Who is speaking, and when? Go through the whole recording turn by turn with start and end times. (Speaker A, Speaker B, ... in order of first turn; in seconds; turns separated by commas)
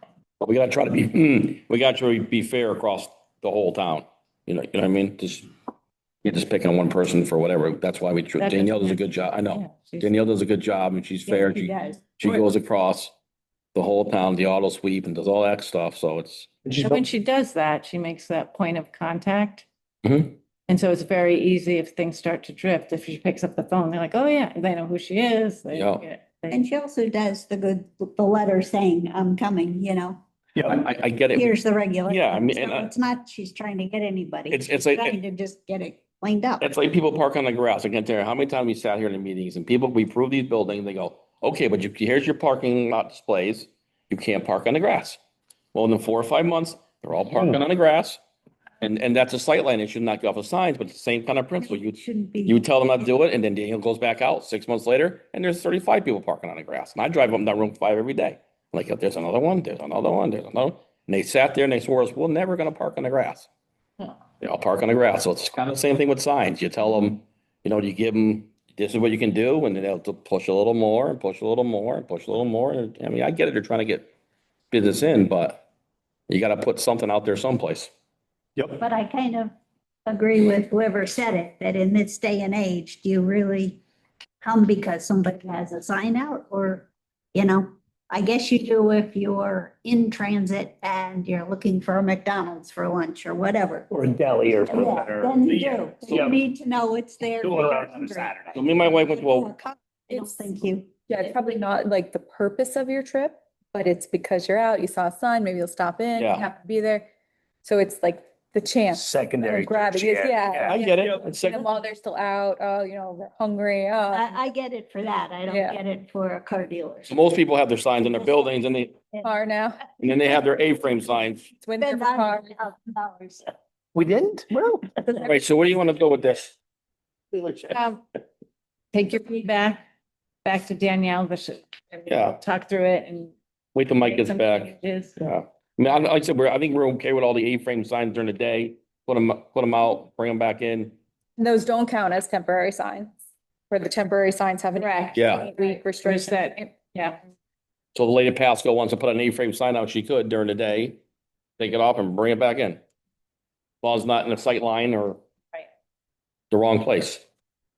Speaker A: 0.4-5.5, Speaker A: 6.2-13.1, Speaker B: 8.4-10.1, Speaker C: 11.3-12.1, Speaker A: 13.8-16.5, Speaker D: 16.7-17.0, Speaker B: 16.8-19.7, Speaker A: 20.0-20.4, Speaker B: 20.7-26.6, Speaker A: 25.7-26.1, Speaker C: 26.5-30.2, Speaker A: 30.6-31.5, Speaker C: 31.3-36.7, Speaker A: 32.0-32.9, Speaker A: 34.5-35.1, Speaker A: 36.6-45.2, Speaker A: 45.7-48.2, Speaker A: 48.8-63.5, Speaker C: 51.6-52.7, Speaker A: 64.4-74.1, Speaker A: 74.7-75.7, Speaker A: 76.3-77.9, Speaker C: 78.8-79.5, Speaker C: 80.0-83.8, Speaker C: 84.4-93.9, Speaker D: 93.9-96.3, Speaker C: 94.7-101.3, Speaker D: 97.4-98.6, Speaker A: 98.5-99.5, Speaker E: 101.1-107.1, Speaker A: 106.2-106.5, Speaker E: 107.6-114.5, Speaker D: 108.9-111.2, Speaker A: 110.7-111.6, Speaker C: 114.1-117.2, Speaker E: 115.5-115.8, Speaker A: 117.1-119.0, Speaker C: 118.0-119.4, Speaker E: 119.2-119.9, Speaker A: 120.0-121.5, Speaker E: 121.6-122.5, Speaker C: 121.8-123.4, Speaker D: 123.9-124.9, Speaker A: 125.2-126.6, Speaker D: 127.3-127.8, Speaker B: 127.7-128.0, Speaker B: 128.9-129.8, Speaker B: 130.4-133.3, Speaker A: 132.1-132.4, Speaker A: 133.8-140.9, Speaker B: 134.0-135.2, Speaker E: 141.4-143.1, Speaker E: 143.7-147.1, Speaker B: 144.8-147.2, Speaker A: 145.1-145.5, Speaker A: 147.9-151.0, Speaker A: 151.6-152.8, Speaker A: 153.8-155.2, Speaker A: 156.5-157.2